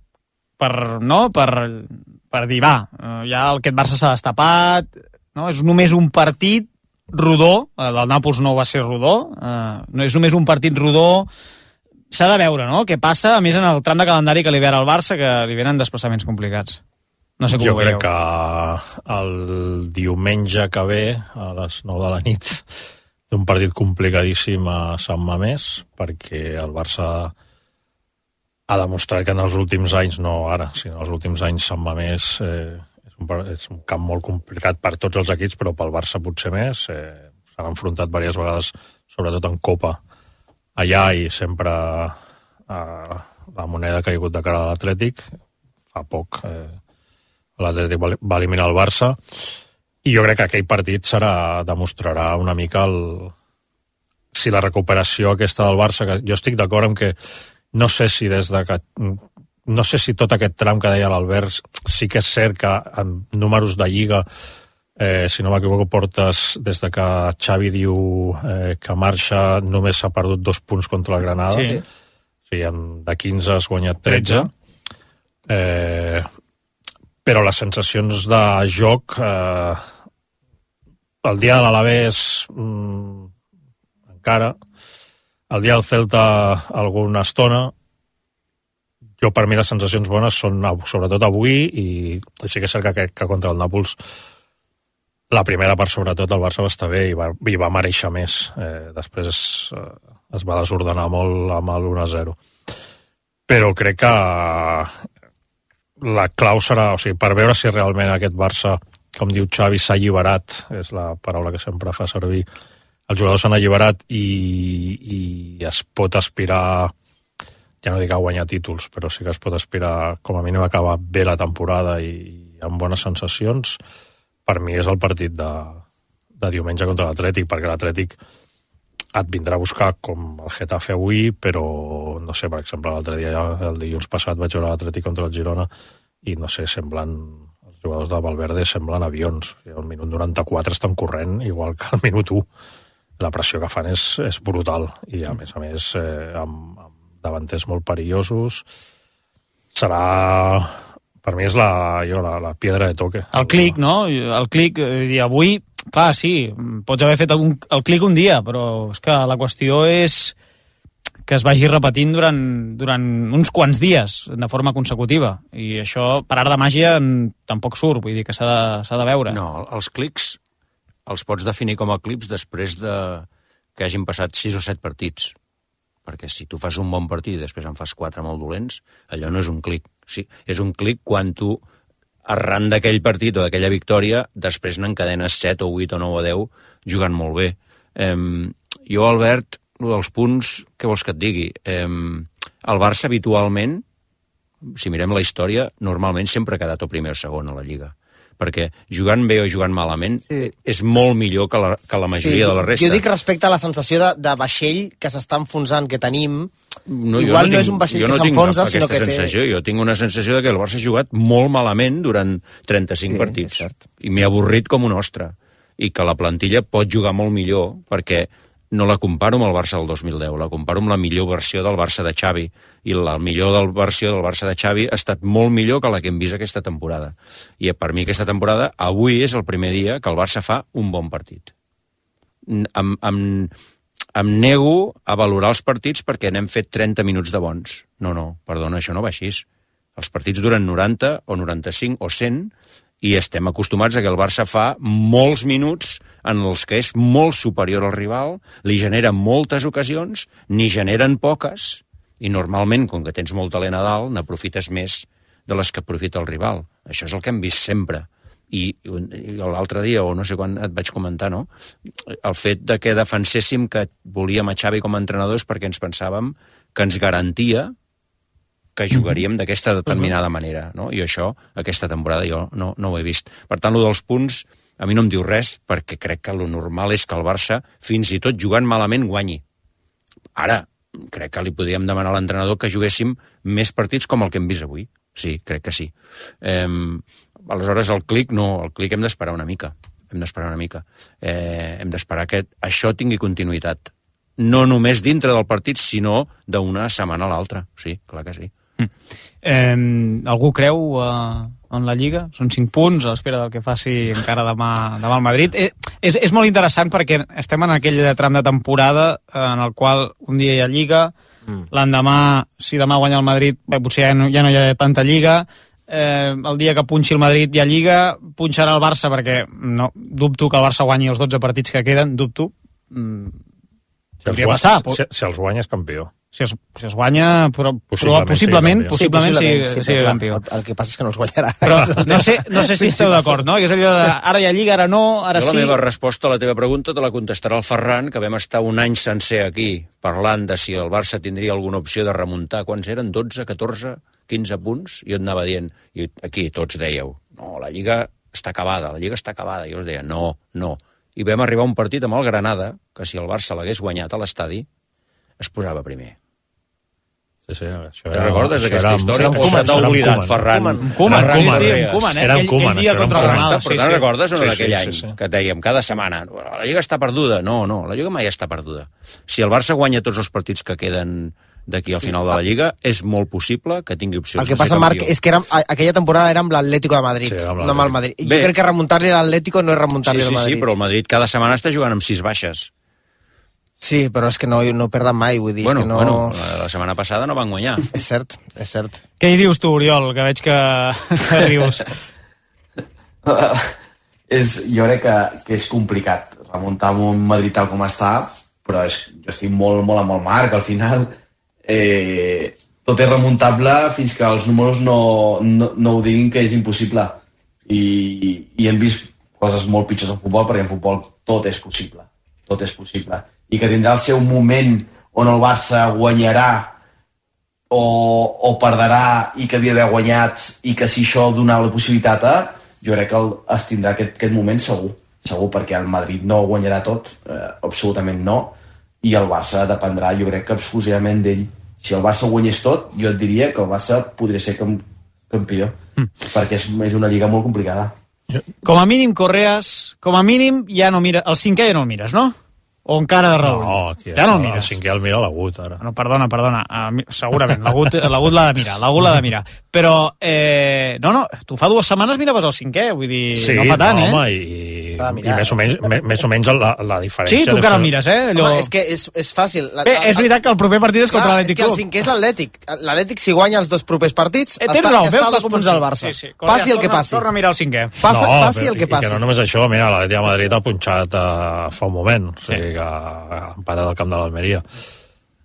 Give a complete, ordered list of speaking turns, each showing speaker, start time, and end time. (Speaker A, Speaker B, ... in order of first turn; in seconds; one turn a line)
Speaker A: 0.6-11.3
Speaker A: 12.1-16.8
Speaker A: 17.4-18.1
Speaker B: 17.6-22.6
Speaker B: 23.3-27.3
Speaker B: 28.7-40.0
Speaker B: 40.8-42.1
Speaker B: 42.7-45.3
Speaker B: 45.9-46.8
Speaker B: 47.6-49.2
Speaker B: 50.0-53.3
Speaker B: 54.3-57.1
Speaker B: 57.7-64.2
Speaker B: 65.0-71.8
Speaker A: 71.5-71.8
Speaker B: 72.5-74.5
Speaker A: 74.0-74.5
Speaker B: 75.5-76.2
Speaker B: 77.2-79.8
Speaker B: 81.2-83.3
Speaker B: 84.2-84.6
Speaker B: 85.5-87.7
Speaker B: 89.2-94.0
Speaker B: 95.3-102.4
Speaker B: 103.5-105.0
Speaker B: 106.0-112.5
Speaker B: 113.1-116.9
Speaker B: 117.8-123.8
Speaker B: 124.5-125.8
Speaker B: 126.4-128.2
Speaker B: 129.2-135.7
Speaker B: 136.2-142.5
Speaker B: 143.2-148.7
Speaker B: 149.7-153.8
Speaker A: 153.3-160.3
Speaker A: 161.3-169.4
Speaker C: 169.3-170.4
Speaker C: 171.1-175.3
Speaker C: 176.1-181.6
Speaker C: 182.3-193.8
Speaker C: 194.6-203.0
Speaker D: 202.2-206.5
Speaker C: 206.9-231.5
Speaker D: 207.1-209.3
Speaker D: 213.1-213.8
Speaker C: 232.5-233.5
Speaker C: 234.1-239.4
Speaker C: 239.9-242.5
Speaker C: 243.0-261.5
Speaker C: 262.1-267.7
Speaker C: 268.8-279.4
Speaker C: 280.4-298.5
Speaker A: 299.4-311.1
Speaker A: 311.7-323.4
Speaker B: 324.2-326.1
Speaker A: 324.2-325.0
Speaker A: 326.3-330.4
Speaker B: 327.9-329.0
Speaker D: 328.9-333.3
Speaker A: 331.6-335.7
Speaker C: 335.3-354.7
Speaker C: 355.4-356.1
Speaker B: 357.5-360.4
Speaker C: 358.1-362.2
Speaker D: 359.2-360.8
Speaker A: 360.8-364.1
Speaker B: 361.0-363.6
Speaker C: 363.1-375.1
Speaker B: 364.3-365.1
Speaker D: 372.0-372.4
Speaker D: 374.4-380.7
Speaker B: 377.2-378.0
Speaker C: 378.2-378.5
Speaker C: 380.0-382.7
Speaker D: 383.8-386.3
Speaker C: 385.6-387.9
Speaker D: 387.9-389.0
Speaker A: 389.2-391.9
Speaker E: 393.2-393.7
Speaker E: 394.3-401.1
Speaker E: 401.6-416.7
Speaker E: 417.7-435.7
Speaker E: 436.3-437.9
Speaker A: 438.6-442.3
Speaker A: 442.9-444.7
Speaker B: 443.4-445.8
Speaker A: 445.8-454.2
Speaker B: 453.3-457.9
Speaker D: 455.0-455.6
Speaker A: 457.3-458.7
Speaker D: 458.3-460.3
Speaker A: 459.8-461.8
Speaker D: 461.1-467.2
Speaker A: 464.6-467.9
Speaker D: 468.0-469.2
Speaker B: 468.1-474.6